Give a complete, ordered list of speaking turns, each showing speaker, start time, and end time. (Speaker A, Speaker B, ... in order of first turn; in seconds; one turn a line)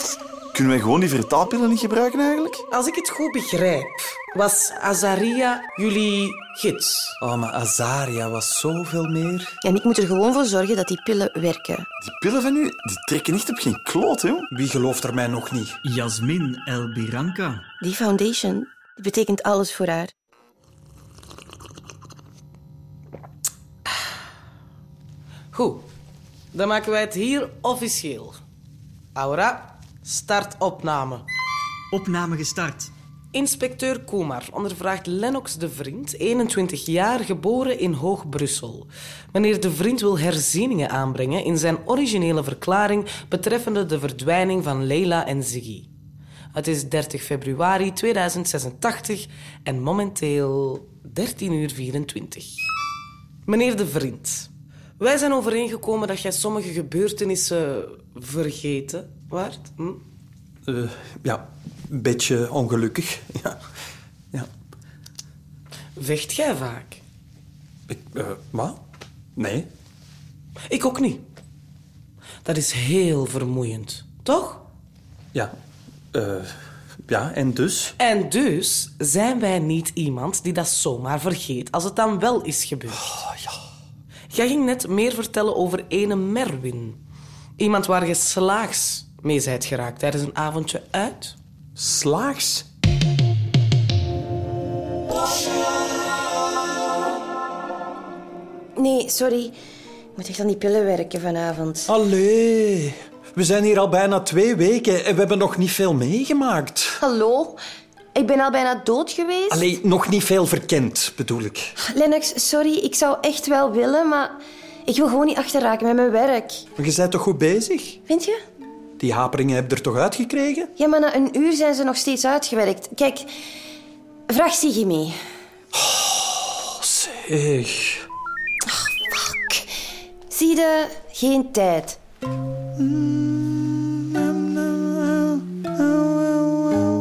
Speaker A: 0.5-2.6
Speaker B: 2.7-7.2
Speaker C: 7.2-9.6
Speaker D: 9.6-11.9
Speaker A: 12.0-14.5
Speaker C: 14.5-15.8
Speaker E: 15.8-17.6
Speaker D: 17.8-20.1
Speaker B: 25.5-25.9
Speaker B: 26.5-28.4
Speaker B: 29.1-31.2
Speaker E: 31.9-32.9
Speaker B: 33.3-45.9
Speaker B: 46.5-52.5
Speaker B: 53.5-60.0
Speaker C: 60.6-63.6
Speaker B: 66.0-67.0
Speaker C: 67.9-68.8
Speaker C: 69.3-69.7
Speaker B: 70.7-71.2
Speaker B: 72.4-74.6
Speaker C: 76.1-76.5
Speaker C: 77.1-77.9
Speaker B: 78.0-83.2
Speaker C: 82.9-83.6
Speaker B: 84.3-87.0
Speaker B: 87.6-91.3
Speaker C: 91.8-92.6
Speaker D: 98.8-99.5
Speaker D: 100.2-101.9
Speaker C: 101.9-107.0
Speaker D: 107.0-107.6
Speaker D: 108.1-109.7
Speaker C: 109.5-111.7
Speaker D: 111.9-116.6
Speaker C: 116.8-118.0
Speaker D: 118.1-118.4
Speaker C: 119.0-120.7
Speaker D: 120.8-123.3
Speaker D: 124.3-125.2
Speaker C: 125.7-128.0
Speaker D: 128.7-129.7
Speaker D: 130.3-132.0
Speaker A: 132.8-135.4